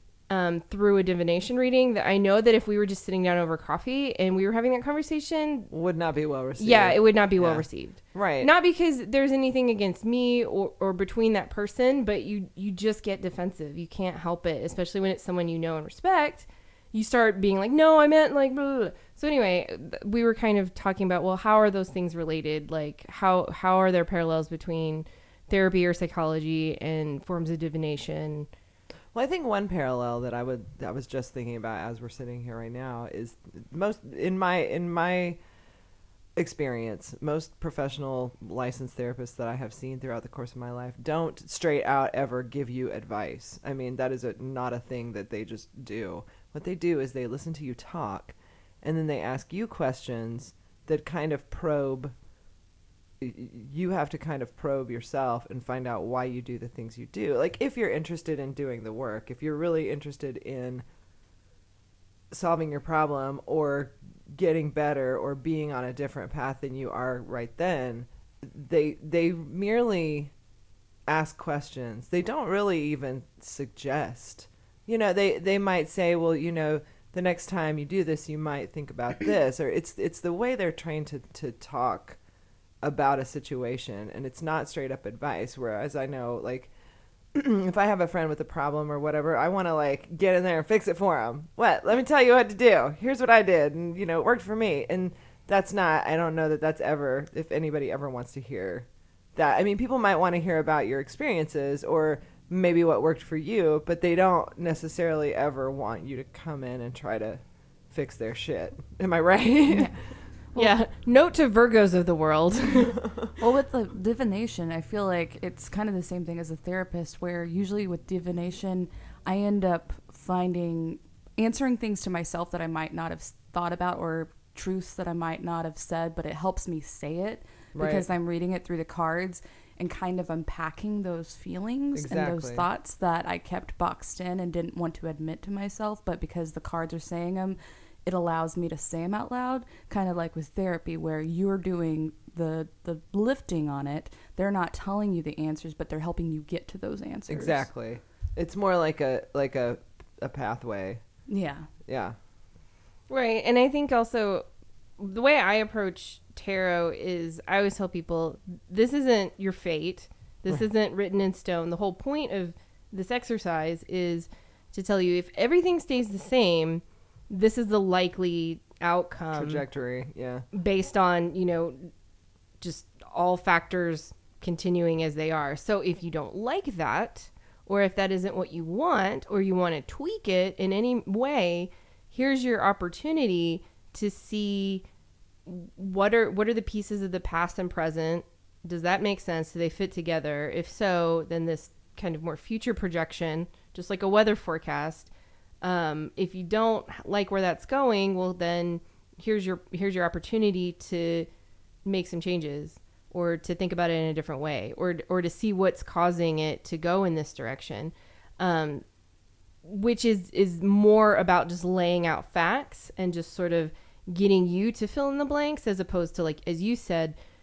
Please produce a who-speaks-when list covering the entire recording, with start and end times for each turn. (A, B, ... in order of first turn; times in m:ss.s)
0:00.3-0:05.7 A
0:05.7-0:08.5 B
0:06.6-0:28.5 A
0:29.1-0:35.4 B
0:36.4-0:52.1 B
0:53.2-1:00.8 B
1:02.3-1:10.3 B
1:11.1-1:22.2 B
1:22.8-1:26.7 B
1:27.3-1:50.1 B
1:49.7-1:50.0 C
1:50.5-1:53.0 A
1:53.4-2:27.7 C
2:07.8-2:08.0 B
2:11.9-2:12.7 B
2:27.3-2:31.0 B
2:31.3-2:31.7 C
2:31.9-2:32.2 B
2:33.1-2:34.5 A
2:35.0-2:49.6 A
2:49.3-2:50.4 B
2:50.5-2:51.9 A
2:52.6-3:04.8 A
3:05.5-3:15.1 A
3:15.6-3:21.3 A
3:21.8-3:28.8 A
3:29.6-3:37.2 A